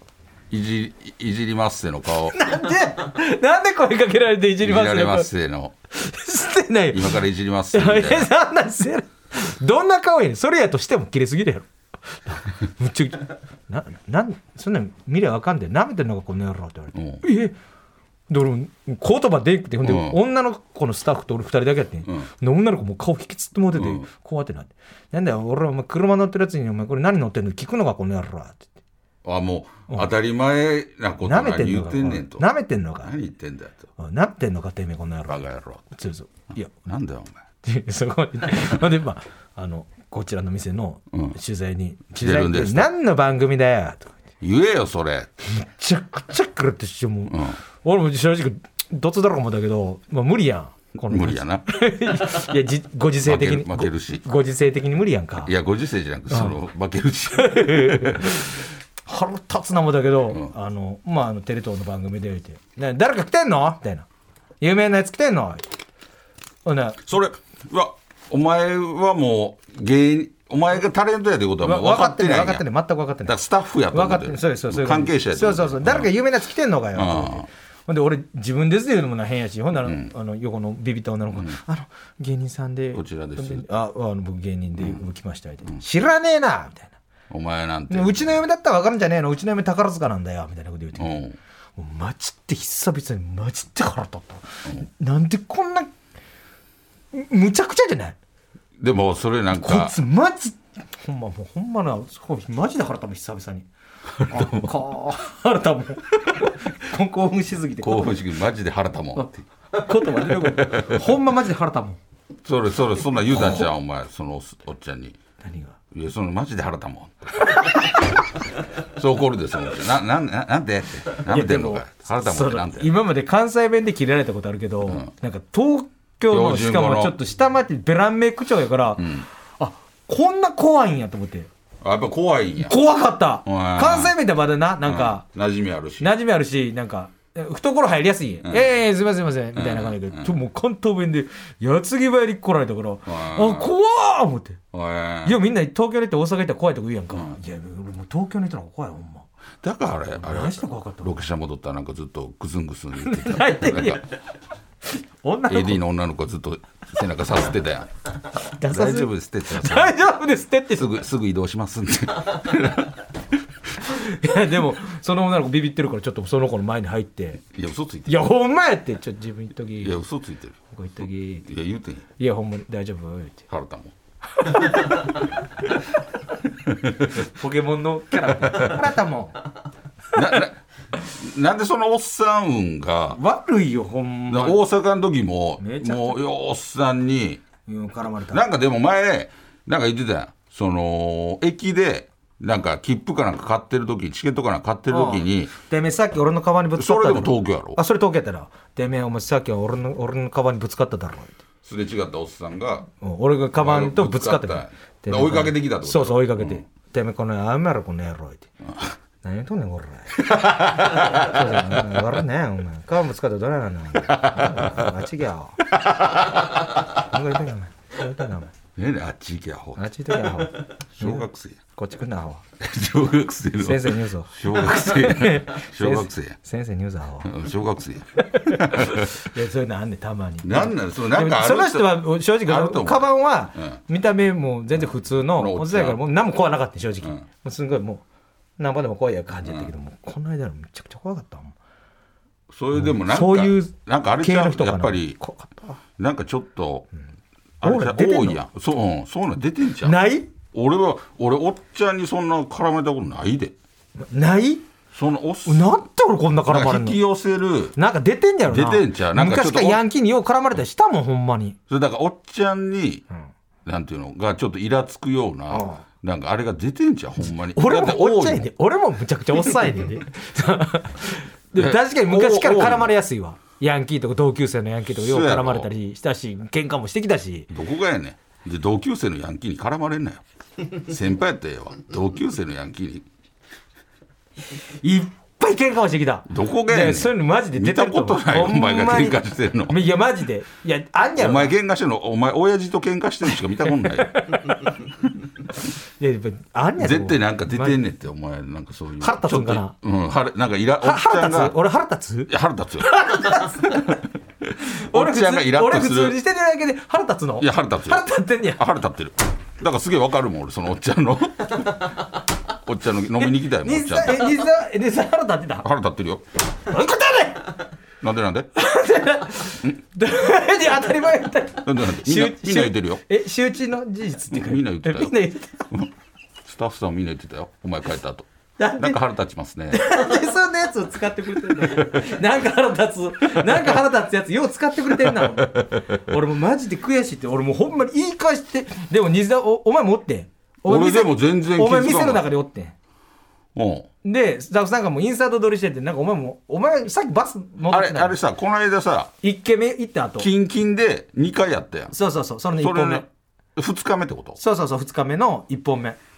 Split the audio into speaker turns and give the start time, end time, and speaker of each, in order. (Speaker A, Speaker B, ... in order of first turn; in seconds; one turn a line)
Speaker A: 0.5-2.4
Speaker B: 2.3-5.3
Speaker A: 4.6-5.7
Speaker B: 5.9-7.2
Speaker A: 6.9-8.3
Speaker B: 7.7-17.5
Speaker A: 16.9-17.2
Speaker B: 18.3-28.7
Speaker A: 19.8-20.2
Speaker A: 23.8-24.1
Speaker A: 29.2-32.5
Speaker B: 31.2-33.1
Speaker A: 33.0-33.9
Speaker B: 34.0-35.4
Speaker A: 35.3-35.9
Speaker B: 35.9-36.7
Speaker A: 36.8-37.4
Speaker B: 37.6-44.2
Speaker A: 41.1-41.4
Speaker A: 42.1-42.9
Speaker A: 44.4-45.3
Speaker B: 45.5-55.5
Speaker A: 47.3-47.6
Speaker A: 51.1-51.6
Speaker A: 53.2-54.2
Speaker A: 55.4-58.4
Speaker B: 56.3-56.5
Speaker B: 57.3-64.0
Speaker B: 64.6-65.6
Speaker B: 66.6-67.0
Speaker A: 67.0-72.6
Speaker B: 71.6-73.3
Speaker A: 73.2-76.1
Speaker B: 73.9-86.9
Speaker A: 76.9-77.5
Speaker A: 79.8-80.1
Speaker A: 81.3-81.6
Speaker A: 82.9-83.7
Speaker A: 87.3-88.4
Speaker B: 87.9-91.2
Speaker A: 91.0-91.4
Speaker B: 91.8-95.9
Speaker B: 97.1-98.2
Speaker A: 98.8-100.0
Speaker B: 99.5-103.7
Speaker B: 104.2-108.1
Speaker A: 104.2-104.7
Speaker A: 107.8-109.4
Speaker B: 109.2-112.0
Speaker A: 110.2-111.1
Speaker A: 112.4-115.2
Speaker B: 113.3-113.6
Speaker B: 115.4-115.8
Speaker A: 115.9-117.4
Speaker B: 117.5-117.8
Speaker A: 118.8-122.9
Speaker B: 121.2-131.5
Speaker A: 124.8-125.1
Speaker A: 126.3-127.2
Speaker A: 129.0-129.3
Speaker A: 131.8-132.8
Speaker B: 132.6-135.2
Speaker A: 133.4-134.1
Speaker A: 134.8-136.1
Speaker B: 136.0-144.6
Speaker A: 138.4-138.7
Speaker A: 139.5-140.3
Speaker A: 143.1-143.7
Speaker A: 144.7-145.4
Speaker B: 145.2-149.3
Speaker A: 149.6-154.0
Speaker B: 150.2-151.2
Speaker B: 153.0-154.1
Speaker B: 155.2-155.8
Speaker A: 155.5-157.9
Speaker B: 158.5-160.9
Speaker A: 158.6-160.0
Speaker A: 160.7-163.0
Speaker B: 163.8-167.4
Speaker A: 167.5-168.3
Speaker B: 168.1-170.0
Speaker A: 169.8-170.6
Speaker B: 170.7-171.5
Speaker A: 171.5-172.0
Speaker B: 172.2-173.4
Speaker A: 173.5-173.9
Speaker B: 174.4-175.0
Speaker B: 177.2-179.4
Speaker A: 180.1-183.2
Speaker B: 183.1-184.6
Speaker A: 184.3-187.4
Speaker B: 185.6-186.2
Speaker B: 187.7-188.4
Speaker A: 188.3-195.5
Speaker B: 194.9-201.4
Speaker A: 196.8-197.8
Speaker A: 201.6-202.9
Speaker B: 203.0-208.5
Speaker A: 203.5-206.6
Speaker B: 209.2-215.6
Speaker A: 210.2-212.0
Speaker A: 214.1-214.9
Speaker A: 215.8-216.1
Speaker B: 216.9-218.5
Speaker A: 218.8-220.4
Speaker B: 219.8-222.4
Speaker A: 220.9-221.6
Speaker A: 222.6-226.4
Speaker B: 223.6-227.3
Speaker A: 227.2-229.1
Speaker B: 228.2-238.0
Speaker A: 230.4-233.8
Speaker A: 235.3-236.0
Speaker B: 238.6-241.5
Speaker A: 239.4-239.7
Speaker A: 242.5-245.2
Speaker B: 242.7-245.8
Speaker A: 246.0-246.9
Speaker A: 247.6-250.0
Speaker B: 247.6-248.4
Speaker B: 249.8-250.3
Speaker A: 250.5-253.5
Speaker B: 254.0-254.6
Speaker A: 254.9-255.8
Speaker B: 255.4-257.0
Speaker A: 256.5-257.8
Speaker B: 257.8-261.6
Speaker A: 258.4-259.8
Speaker A: 261.7-263.0
Speaker A: 263.6-268.5
Speaker B: 265.5-265.8
Speaker B: 267.5-277.5
Speaker A: 271.5-272.9
Speaker A: 274.9-275.7
Speaker A: 277.5-283.1
Speaker B: 284.8-291.5
Speaker A: 286.3-289.8
Speaker A: 291.1-294.2
Speaker B: 293.8-294.7
Speaker B: 296.0-297.8
Speaker A: 296.8-301.6
Speaker B: 299.0-299.7
Speaker B: 300.8-304.0
Speaker A: 302.3-306.2
Speaker B: 304.9-308.6
Speaker A: 307.4-314.5
Speaker B: 313.3-315.7
Speaker A: 315.6-316.2
Speaker B: 316.6-317.6
Speaker A: 318.0-318.5
Speaker B: 318.5-325.7
Speaker A: 321.6-323.0
Speaker A: 324.3-325.2
Speaker A: 326.4-330.0
Speaker B: 328.6-329.0
Speaker B: 329.7-342.7
Speaker A: 331.6-332.0
Speaker A: 335.0-335.8
Speaker A: 340.6-342.2
Speaker A: 343.5-343.9
Speaker B: 344.0-348.2
Speaker A: 347.7-349.1
Speaker B: 349.2-350.3
Speaker A: 350.2-351.9
Speaker B: 351.9-353.1
Speaker A: 352.6-354.4
Speaker B: 354.4-356.0